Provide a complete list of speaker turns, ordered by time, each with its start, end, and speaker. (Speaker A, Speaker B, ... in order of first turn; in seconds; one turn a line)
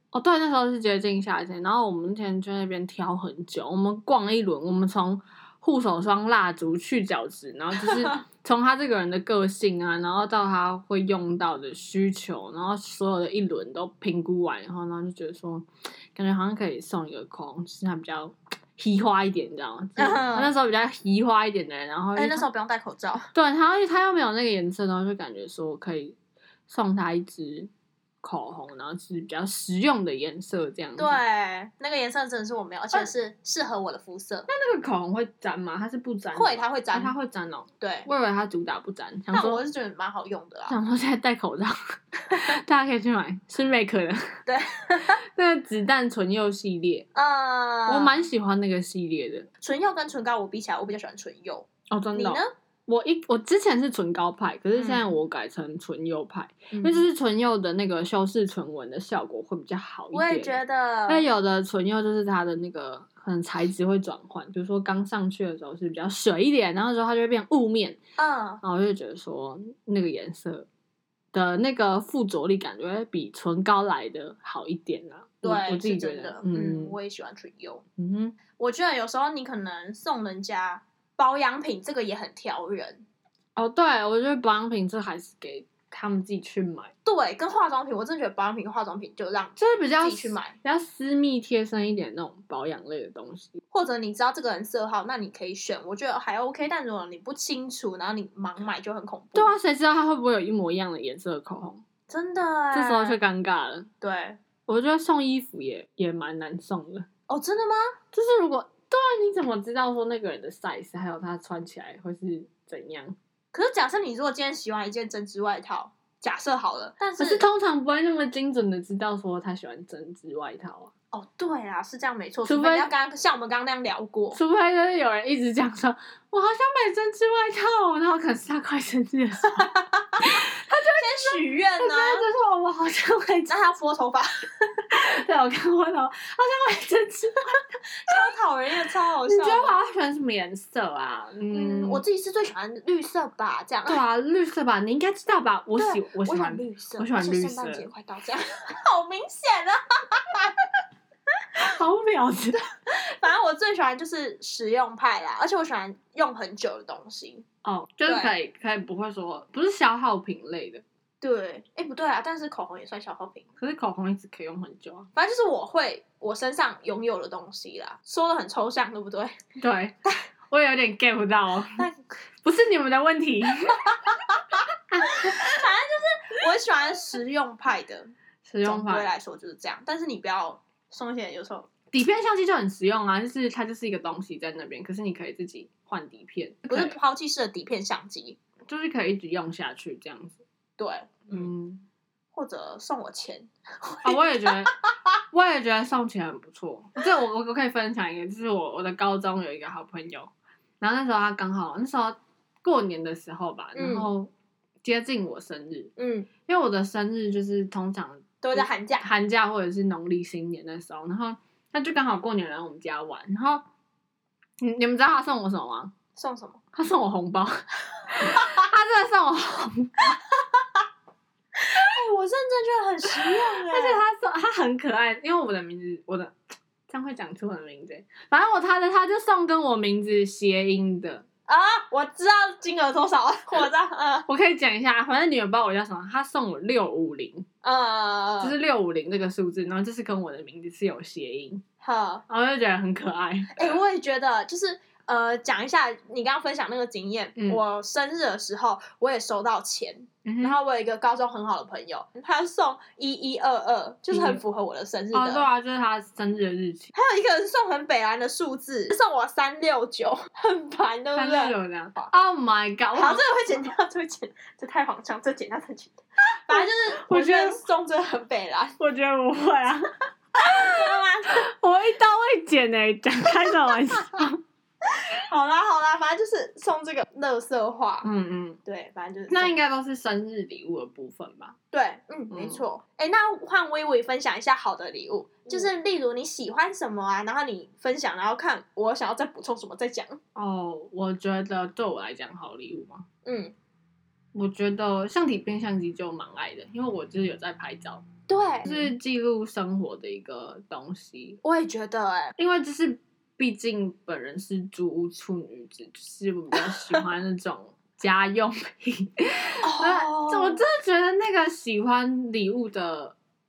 Speaker A: 0.1-22.5
Speaker B: 20.0-20.5
Speaker B: 22.2-23.3
Speaker A: 23.3-26.2
Speaker A: 26.7-27.7
Speaker A: 28.2-31.2
Speaker B: 31.0-34.5
Speaker A: 34.5-39.6
Speaker B: 36.3-37.2
Speaker B: 37.8-38.1
Speaker B: 39.3-40.8
Speaker A: 40.7-44.4
Speaker B: 44.5-45.2
Speaker A: 45.2-47.1
Speaker B: 47.1-48.2
Speaker A: 47.9-49.5
Speaker B: 49.6-52.5
Speaker A: 51.9-68.0
Speaker B: 54.8-55.1
Speaker B: 56.7-57.0
Speaker B: 60.1-61.3
Speaker B: 68.2-68.6
Speaker A: 68.6-70.7
Speaker A: 71.3-77.0
Speaker B: 75.4-77.8
Speaker A: 78.0-78.4
Speaker B: 78.6-83.0
Speaker A: 83.6-86.9
Speaker B: 87.0-90.6
Speaker A: 89.6-93.6
Speaker B: 93.7-99.5
Speaker A: 99.3-101.8
Speaker B: 102.1-103.2
Speaker A: 102.7-103.9
Speaker B: 104.0-104.4
Speaker A: 104.7-107.1
Speaker B: 107.3-108.0
Speaker A: 108.1-113.2
Speaker B: 113.5-117.5
Speaker A: 117.2-120.9
Speaker B: 121.1-124.4
Speaker A: 122.5-122.9
Speaker A: 124.3-129.7
Speaker B: 129.6-130.2
Speaker A: 130.2-133.7
Speaker B: 131.0-132.2
Speaker B: 133.5-134.5
Speaker A: 134.9-138.2
Speaker B: 138.1-139.8
Speaker A: 139.3-142.0
Speaker B: 141.5-144.0
Speaker A: 143.9-147.9
Speaker B: 145.8-150.6
Speaker A: 151.6-152.6
Speaker B: 152.9-157.4
Speaker A: 157.6-160.8
Speaker B: 158.1-158.3
Speaker B: 161.2-163.5
Speaker A: 163.6-165.1
Speaker B: 165.2-169.4
Speaker A: 169.6-170.0
Speaker A: 170.5-171.9
Speaker B: 171.8-172.0
Speaker A: 172.4-174.1
Speaker A: 174.9-175.5
Speaker B: 175.0-178.1
Speaker A: 178.4-179.1
Speaker B: 178.6-181.7
Speaker A: 181.9-187.0
Speaker B: 186.7-188.4
Speaker A: 188.7-190.4
Speaker B: 190.8-191.5
Speaker A: 191.3-191.8
Speaker B: 192.3-194.7
Speaker A: 194.0-194.8
Speaker A: 195.3-204.3
Speaker B: 203.8-204.1
Speaker A: 204.8-205.9
Speaker B: 206.0-206.3
Speaker A: 206.4-213.6
Speaker B: 208.4-209.1
Speaker A: 214.6-215.9
Speaker B: 216.2-216.6
Speaker A: 216.7-220.2
Speaker B: 221.6-224.0
Speaker A: 223.2-226.3
Speaker A: 226.9-231.2
Speaker B: 231.5-234.3
Speaker A: 234.3-237.5
Speaker B: 237.6-238.6
Speaker A: 238.4-241.6
Speaker B: 241.8-242.2
Speaker A: 242.3-243.8
Speaker B: 243.6-255.5
Speaker A: 247.4-247.6
Speaker A: 250.2-250.6
Speaker A: 254.1-254.4
Speaker A: 255.1-256.9
Speaker B: 256.9-262.1
Speaker A: 261.1-263.2
Speaker B: 262.9-268.8
Speaker A: 266.5-267.6
Speaker A: 268.8-269.9
Speaker B: 270.4-271.4
Speaker A: 270.4-274.4
Speaker B: 275.1-278.1
Speaker A: 278.0-278.6
Speaker B: 278.6-279.6
Speaker A: 279.3-281.6
Speaker B: 281.7-290.2
Speaker A: 282.3-282.6
Speaker A: 290.4-293.1
Speaker B: 293.2-293.6
Speaker A: 294.3-298.1
Speaker B: 298.3-298.9
Speaker A: 298.6-301.4
Speaker B: 301.4-302.4
Speaker A: 302.4-313.1
Speaker B: 309.6-310.6